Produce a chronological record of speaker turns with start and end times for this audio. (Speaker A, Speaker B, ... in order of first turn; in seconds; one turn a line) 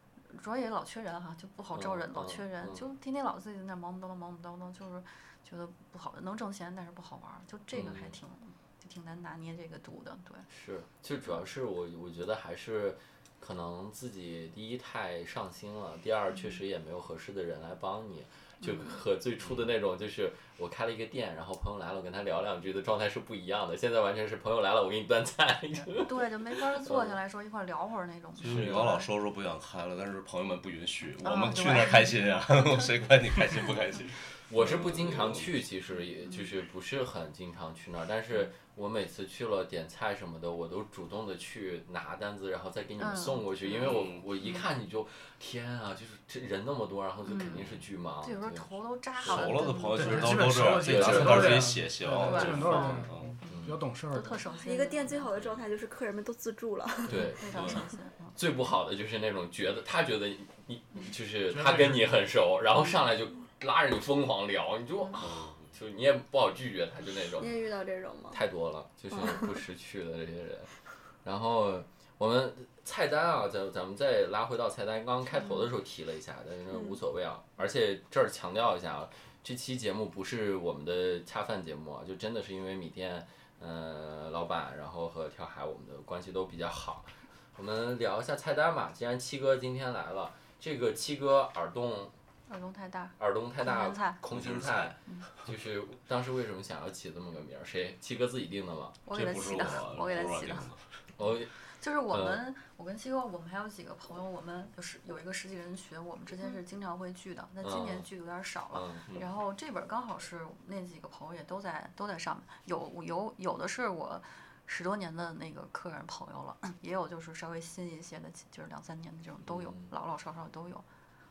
Speaker A: 0.3-10.5
Speaker B: 1.7-2.9
Speaker B: 7.7-8.2
Speaker B: 10.5-27.2
Speaker A: 18.6-19.0
Speaker A: 25.9-29.1
Speaker C: 28.4-35.6
Speaker B: 28.4-28.8
Speaker A: 31.2-32.9
Speaker B: 34.5-48.7
Speaker A: 43.0-44.6
Speaker C: 43.8-44.2
Speaker A: 47.2-47.7
Speaker A: 48.2-50.4
Speaker C: 49.2-53.3
Speaker B: 49.2-49.5
Speaker D: 49.9-54.4
Speaker B: 50.7-51.8
Speaker A: 52.1-53.6
Speaker B: 52.3-53.8
Speaker A: 54.1-55.3
Speaker E: 54.5-57.8
Speaker B: 57.1-57.8
Speaker A: 57.4-58.4
Speaker C: 57.5-57.8
Speaker B: 58.3-67.6
Speaker D: 61.5-62.1
Speaker C: 65.2-65.7
Speaker E: 67.3-68.4
Speaker B: 68.3-92.1
Speaker E: 69.1-69.6
Speaker E: 76.7-77.0
Speaker A: 92.5-94.2
Speaker B: 93.2-99.0
Speaker C: 94.3-94.9
Speaker A: 99.0-100.7
Speaker C: 99.1-100.8
Speaker B: 101.2-101.5
Speaker A: 101.7-120.8
Speaker B: 102.1-102.4
Speaker B: 107.6-108.1
Speaker B: 108.7-109.1
Speaker B: 119.5-119.9